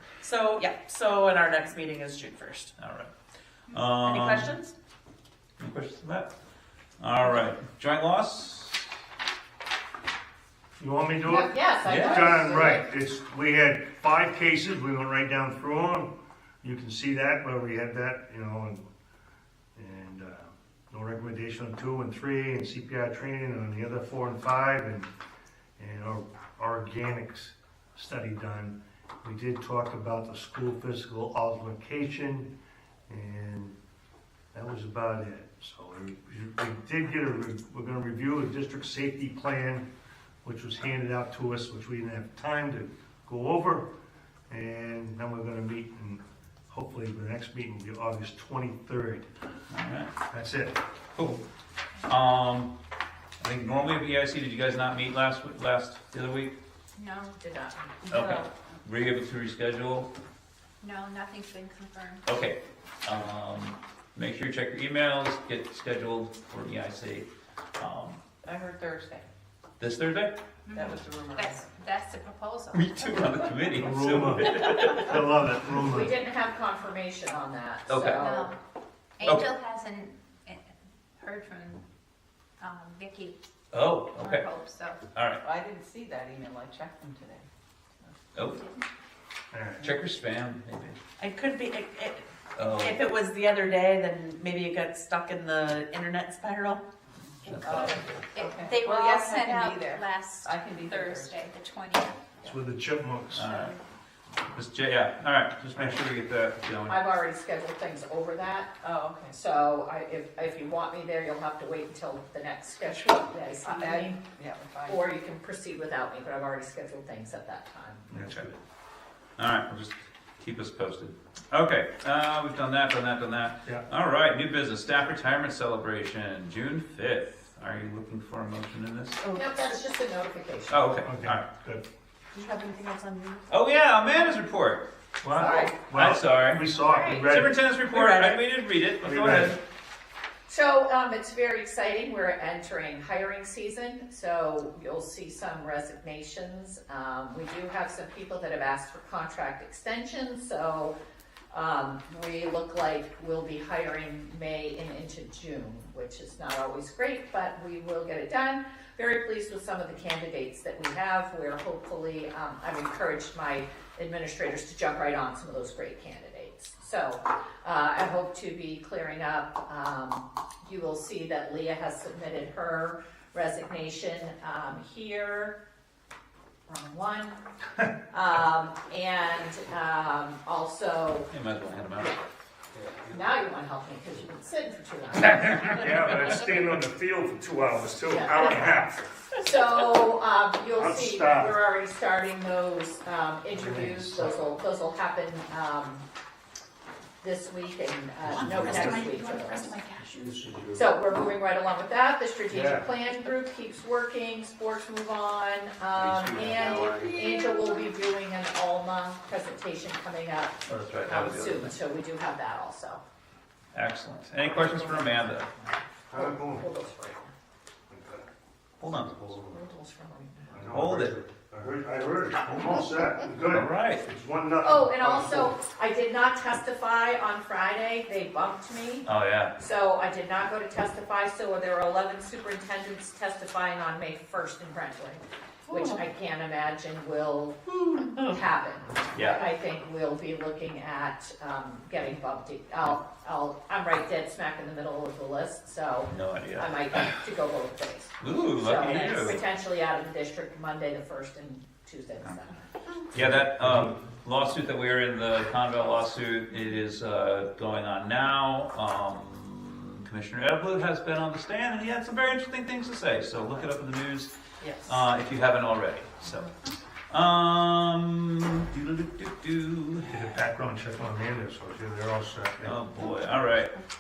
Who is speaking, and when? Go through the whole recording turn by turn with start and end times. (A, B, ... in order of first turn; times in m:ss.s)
0:00.2-0:02.7 A
0:02.8-0:03.1 B
0:03.7-0:04.6 B
0:04.0-0:04.7 A
0:05.6-0:06.3 B
0:07.0-0:08.9 B
0:10.8-0:18.9 C
0:11.2-0:12.9 D
0:11.8-0:12.3 B
0:19.8-0:25.1 C
0:25.8-0:32.5 C
0:33.1-0:33.8 C
0:34.5-0:39.9 C
0:40.4-0:43.9 C
0:44.5-0:49.3 C
0:49.7-0:50.1 B
0:50.3-0:50.8 C
0:51.2-0:51.4 B
0:52.0-0:52.7 B
0:53.4-0:56.5 B
0:57.0-0:57.4 E
0:57.4-0:58.0 D
0:58.0-0:58.5 F
0:58.1-1:00.1 B
1:00.8-1:02.2 E
1:02.2-1:08.2 B
1:08.4-1:09.3 F
1:09.8-1:10.4 B
1:10.7-1:13.5 E
1:10.7-1:11.6 F
1:12.7-1:15.2 B
1:13.8-1:16.2 C
1:15.7-1:18.5 D
1:17.9-1:18.3 B
1:18.2-1:18.6 E
1:19.2-1:20.6 E
1:19.2-1:19.5 B
1:21.2-1:21.8 E
1:22.6-1:23.4 E
1:23.7-1:24.5 B
1:24.2-1:25.0 E
1:25.1-1:25.4 B
1:25.4-1:27.5 F
1:28.5-1:28.8 E
1:29.5-1:29.9 C
1:29.8-1:31.0 B
1:31.2-1:32.2 A
1:32.6-1:33.0 B
1:32.8-1:36.8 A
1:37.4-1:38.2 B
1:37.4-1:42.2 E
1:37.5-1:41.4 F
1:42.5-1:43.5 C
1:43.3-1:43.8 B
1:43.4-1:43.8 E
1:44.5-1:47.0 B
1:45.7-1:46.0 C
1:46.9-1:48.7 D
1:48.8-1:49.4 F
1:49.3-1:54.2 D
1:53.6-1:55.0 F
1:54.9-1:58.1 D
1:58.1-1:58.6 C
1:58.2-1:58.5 B
1:59.4-2:09.2 B
2:09.2-2:09.5 A
2:09.3-2:10.9 D
2:10.7-2:11.5 B
2:11.0-2:11.8 C
2:12.3-2:13.4 A
2:13.5-2:14.9 B
2:15.2-2:17.6 C
2:15.4-2:15.8 D
2:15.4-2:16.7 B
2:16.8-2:17.3 D
2:17.2-2:19.6 B
2:17.9-2:18.4 A
2:19.0-2:19.6 C
2:20.5-2:30.9 D
2:31.5-2:55.6 D
2:56.7-2:57.4 D
2:58.1-3:01.3 D
3:01.3-3:02.2 B
3:02.8-3:03.2 C
3:03.1-3:06.3 D
3:05.3-3:06.1 B
3:05.6-3:09.1 C
3:08.1-3:08.8 D
3:09.4-3:16.0 D
3:10.7-3:11.6 C
3:13.5-3:14.5 C
3:17.2-3:19.8 D
3:18.3-3:19.1 C
3:18.3-3:20.3 A
3:20.0-3:20.8 C
3:20.7-3:33.0 D
3:22.5-3:22.9 C
3:26.0-3:27.1 C
3:26.1-3:26.8 B
3:30.7-3:31.8 B
3:33.7-3:35.5 B
3:34.5-3:37.3 D
3:36.1-3:36.7 C
3:37.9-3:38.3 C
3:38.8-3:39.1 B
3:38.9-3:39.6 C
3:39.4-3:40.6 D
3:40.5-3:45.6 C
3:40.7-3:41.2 B
3:43.5-3:44.0 B
3:44.6-4:12.7 D
3:49.1-3:49.5 B
3:59.1-3:59.5 B
4:06.1-4:07.1 B
4:08.2-4:09.4 B
4:13.1-4:24.3 B
4:13.2-4:13.9 C
4:24.6-4:25.0 A
4:24.8-4:30.3 B
4:30.1-4:33.2 C
4:32.6-4:33.7 B